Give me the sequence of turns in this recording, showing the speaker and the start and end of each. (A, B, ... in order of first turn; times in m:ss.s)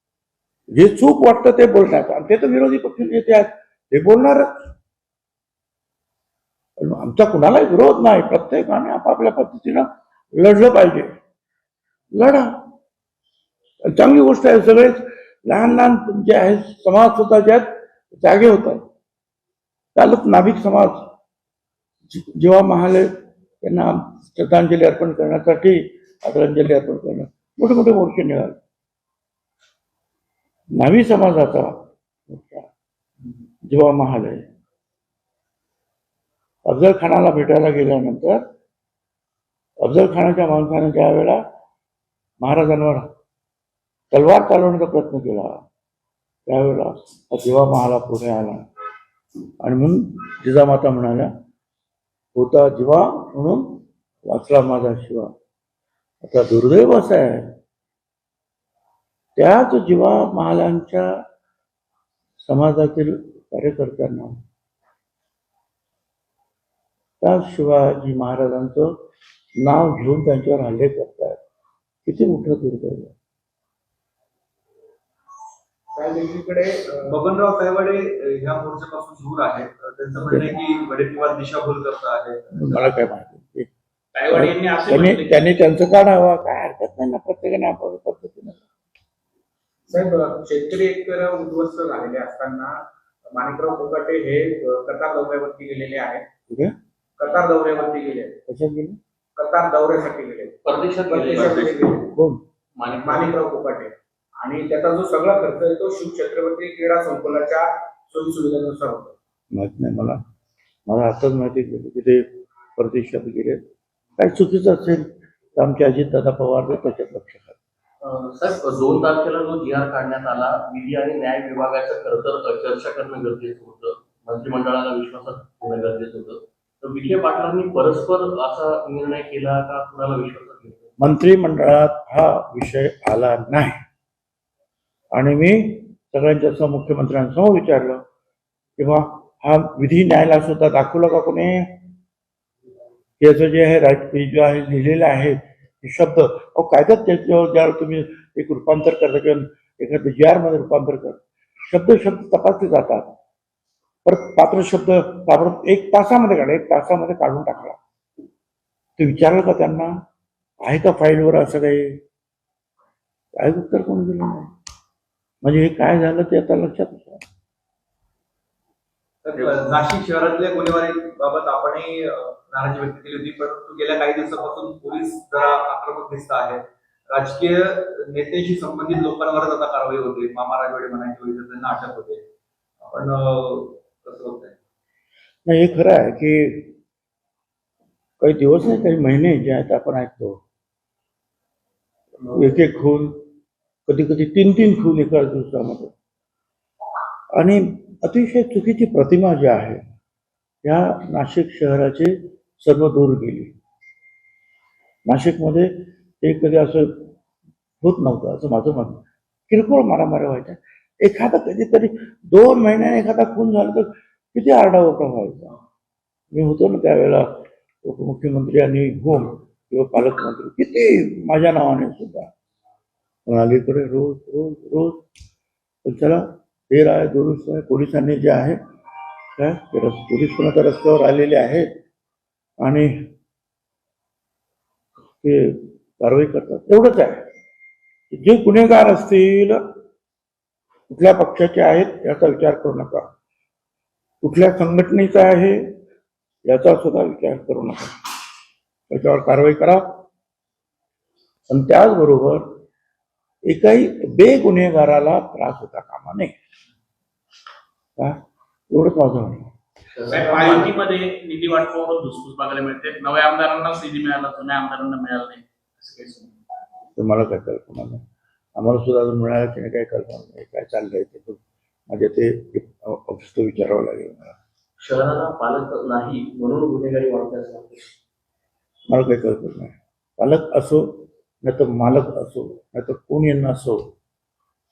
0:00.7-0:04.7 A
0:06.8-0:11.1 A
0:12.1-0:12.6 A
0:13.8-0:18.8 A
0:19.9-0:21.1 A
0:22.1-0:28.6 A
0:30.7-0:32.7 A
0:33.6-0:34.4 A
0:36.6-0:38.4 A
0:39.8-0:41.4 A
0:42.4-0:43.1 A
0:44.1-0:45.6 A
0:46.5-0:48.6 A
0:49.6-0:51.3 A
0:52.3-0:55.3 A
0:56.2-0:57.6 A
0:59.4-1:01.1 A
1:02.4-1:04.4 A
1:07.2-1:09.0 A
1:09.6-1:11.4 A
1:12.0-1:13.1 A
1:15.9-1:17.1 B
1:17.1-1:22.8 C
1:20.3-1:20.6 A
1:22.5-1:23.7 A
1:24.1-1:25.4 D
1:24.3-1:28.6 A
1:29.9-1:32.8 B
1:33.3-1:36.2 B
1:36.5-1:36.7 A
1:37.2-1:38.4 B
1:38.5-1:39.0 A
1:39.4-1:42.1 B
1:40.6-1:42.0 E
1:42.1-1:42.4 A
1:42.8-1:43.4 E
1:43.0-1:49.1 B
1:49.5-1:50.2 A
1:50.9-1:53.6 A
1:54.2-1:57.5 A
1:58.0-2:10.9 E
2:11.0-2:13.8 A
2:15.1-2:18.0 A
2:18.8-2:21.8 A
2:23.2-2:33.1 A
2:34.0-2:37.8 A
2:39.0-2:39.9 A
2:40.6-2:42.0 A
2:43.3-2:44.5 A
2:45.4-2:47.2 A
2:49.2-3:02.2 C
3:02.8-3:04.5 C
3:05.4-3:06.7 A
3:08.2-3:10.4 A
3:12.3-3:13.2 A
3:13.8-3:15.9 A
3:17.3-3:19.8 A
3:20.6-3:23.5 A
3:25.0-3:27.1 A
3:27.8-3:35.5 A
3:36.3-3:42.3 A
3:43.2-3:45.0 A
3:45.8-3:48.6 A
3:49.4-3:51.7 A
3:52.6-3:53.1 A
3:55.2-3:57.3 A
3:58.1-3:59.6 A
4:00.9-4:03.1 A
4:04.2-4:05.7 A
4:06.4-4:08.1 A
4:08.9-4:10.0 A
4:11.5-4:12.5 A
4:13.4-4:16.3 A
4:18.0-4:19.5 A
4:20.0-4:20.7 E
4:20.1-4:26.3 D
4:27.0-4:28.0 A
4:28.6-4:34.4 A
4:34.8-4:37.9 E
4:38.9-4:43.9 A